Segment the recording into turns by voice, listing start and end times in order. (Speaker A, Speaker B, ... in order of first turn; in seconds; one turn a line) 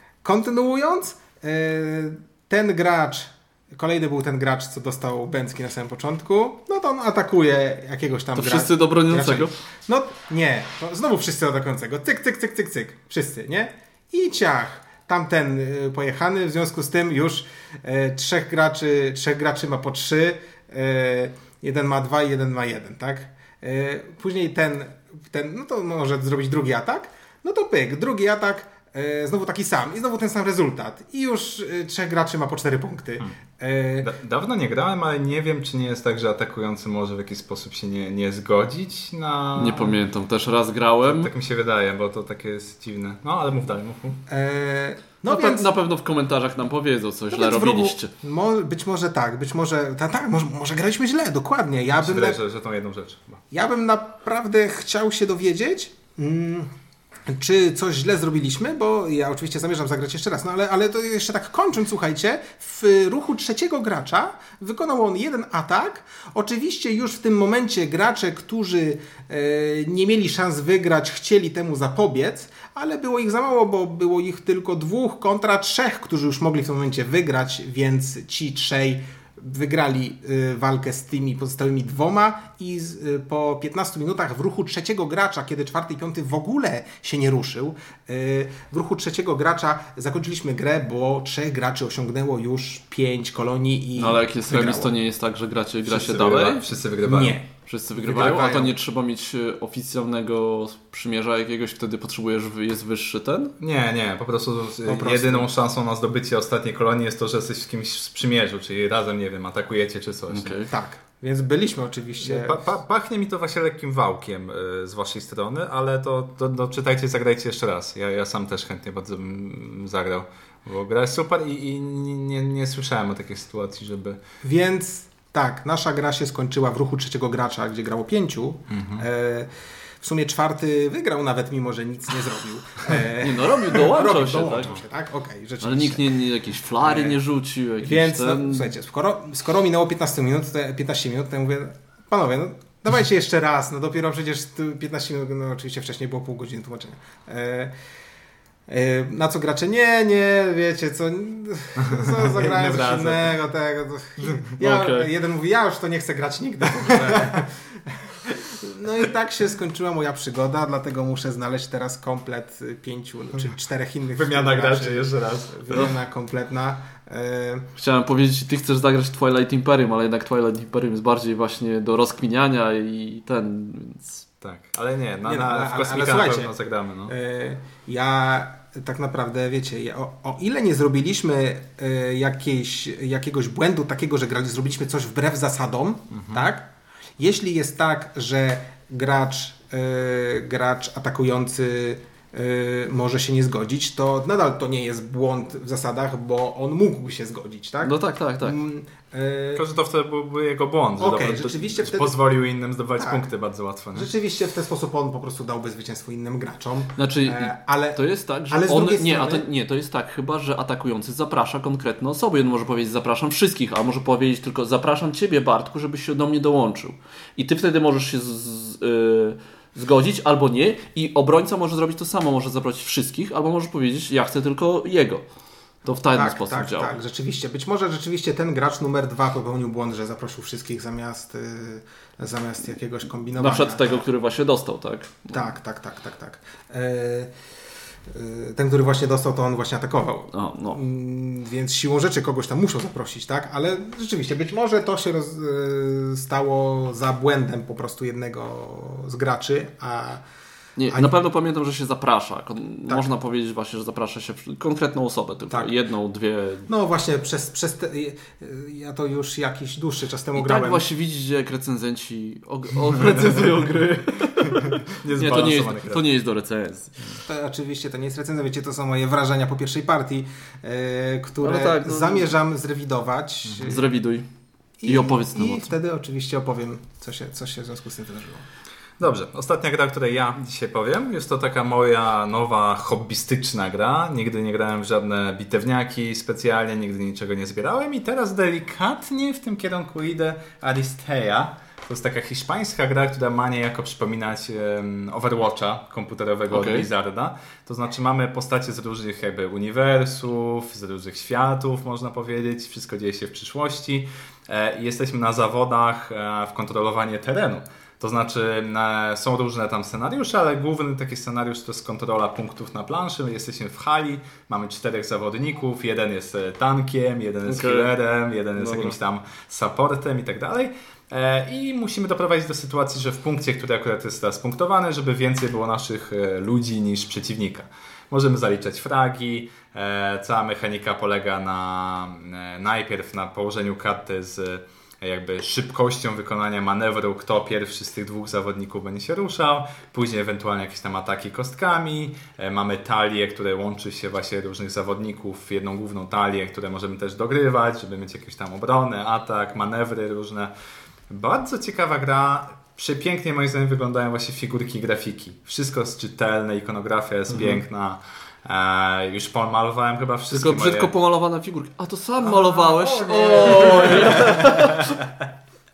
Speaker A: 0.2-34.1
Speaker B: 8.3-9.5
Speaker C: 34.0-40.0
Speaker B: 39.5-41.3
Speaker C: 41.1-44.2
Speaker A: 44.3-45.7
Speaker B: 45.3-48.1
Speaker A: 47.3-52.4
Speaker C: 52.0-53.4
Speaker A: 53.5-56.7
Speaker A: 57.3-94.9
Speaker B: 94.0-96.6
Speaker C: 95.9-97.4
Speaker A: 97.0-98.7
Speaker B: 97.7-103.5
Speaker C: 98.1-98.5
Speaker C: 103.6-110.6
Speaker A: 104.8-105.5
Speaker B: 110.3-110.7
Speaker A: 110.7-112.6
Speaker C: 112.2-124.2
Speaker A: 124.4-136.1
Speaker C: 128.7-129.0
Speaker B: 133.0-134.8
Speaker B: 135.6-138.7
Speaker A: 136.8-137.2
Speaker A: 137.8-147.7
Speaker A: 148.7-167.7
Speaker C: 151.8-153.3
Speaker B: 154.6-155.1
Speaker C: 156.9-157.4
Speaker C: 164.2-165.9
Speaker B: 167.8-174.2
Speaker C: 174.4-177.1
Speaker A: 175.2-176.5
Speaker A: 177.1-199.6
Speaker C: 186.1-186.5
Speaker B: 197.8-198.6
Speaker C: 199.5-204.1
Speaker A: 201.0-202.2
Speaker A: 203.0-203.2
Speaker A: 203.9-209.5
Speaker B: 207.0-225.2
Speaker B: 225.8-226.9
Speaker A: 226.1-234.1
Speaker B: 233.3-235.4
Speaker A: 235.3-237.3
Speaker A: 238.1-250.2
Speaker B: 240.3-240.8
Speaker B: 250.8-256.7
Speaker A: 256.7-260.8
Speaker B: 260.4-266.9
Speaker C: 264.5-266.1
Speaker A: 267.2-273.8
Speaker B: 271.4-272.3
Speaker C: 273.5-273.8
Speaker B: 273.6-274.2
Speaker A: 274.8-278.4
Speaker B: 274.9-275.7
Speaker C: 279.0-350.5
Speaker B: 296.5-296.9
Speaker B: 317.4-317.9
Speaker B: 318.6-318.9
Speaker C: 351.1-360.9
Speaker B: 360.3-364.9
Speaker A: 362.2-364.6
Speaker C: 363.6-365.3